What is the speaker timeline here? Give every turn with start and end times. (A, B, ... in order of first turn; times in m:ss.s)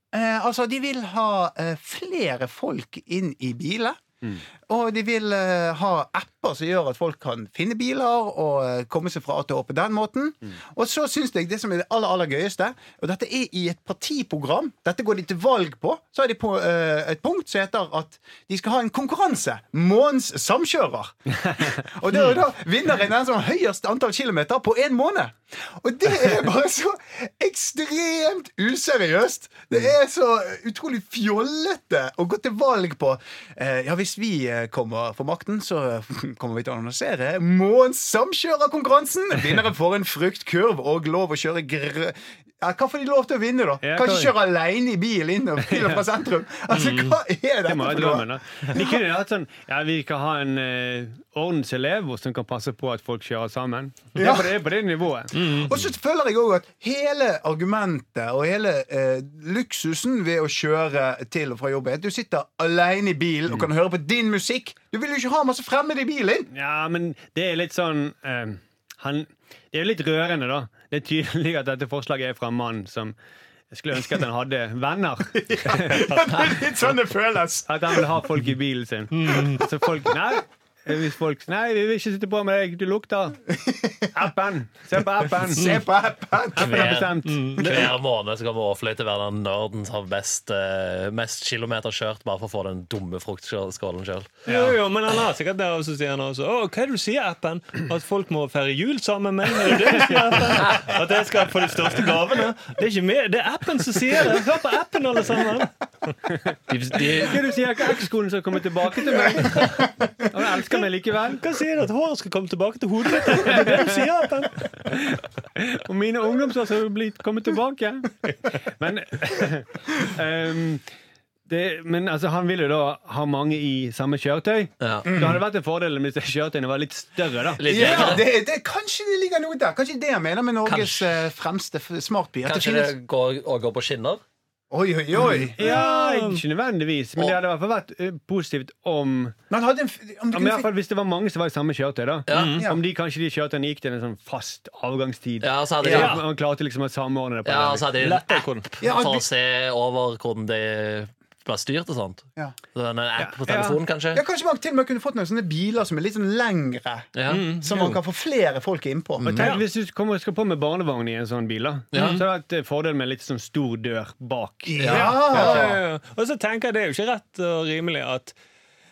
0:00.1-0:04.0 A
0:04.7-0:48.3 A
0:43.8-0:44.4 B
0:45.7-0:46.0 B
0:46.7-0:47.2 C
0:47.7-0:55.4 B
0:54.2-0:54.5 A
0:55.3-0:55.7 C
0:55.7-1:06.5 A
1:06.5-1:13.2 B
1:13.7-1:16.1 B
1:15.4-1:18.1 A
1:16.1-1:16.4 C
1:17.7-1:23.4 B
1:19.1-1:19.6 C
1:23.7-1:24.1 A
1:24.1-1:25.8 B
1:25.5-1:27.0 A
1:26.6-1:27.5 B
1:26.6-1:34.7 D
1:27.3-1:28.0 C
1:34.5-1:46.1 C
1:40.6-1:40.9 D
1:46.7-1:47.4 D
1:47.2-1:49.7 B
1:50.3-1:51.4 B
1:51.4-1:54.8 C
1:53.3-1:53.8 B
1:54.9-1:58.1 B
1:58.8-2:00.8 B
2:01.5-2:08.2 B
2:04.8-2:05.3 D
2:05.0-2:05.4 A
2:07.6-2:08.3 D
2:07.7-2:12.9 A
2:10.6-2:11.1 D
2:12.4-2:14.2 D
2:14.7-2:15.6 A
2:15.6-2:19.4 B
2:15.6-2:16.4 C
2:19.5-2:20.7 A
2:20.3-2:28.0 B
2:22.3-2:22.6 D
2:22.3-2:22.6 C
2:22.5-2:22.8 A
2:25.4-2:26.2 D
2:25.9-2:26.2 C
2:27.4-2:34.2 D
2:28.0-2:28.7 C
2:28.8-2:29.3 A
2:33.2-2:33.8 B
2:34.1-2:39.4 A
2:37.2-2:37.5 D
2:37.3-2:38.0 C
2:39.2-2:39.5 D
2:39.3-2:45.7 B
2:39.4-2:39.6 C
2:41.9-2:42.2 D
2:42.0-2:42.2 C
2:44.7-2:45.8 A
2:44.8-2:45.7 D
2:44.9-2:48.4 C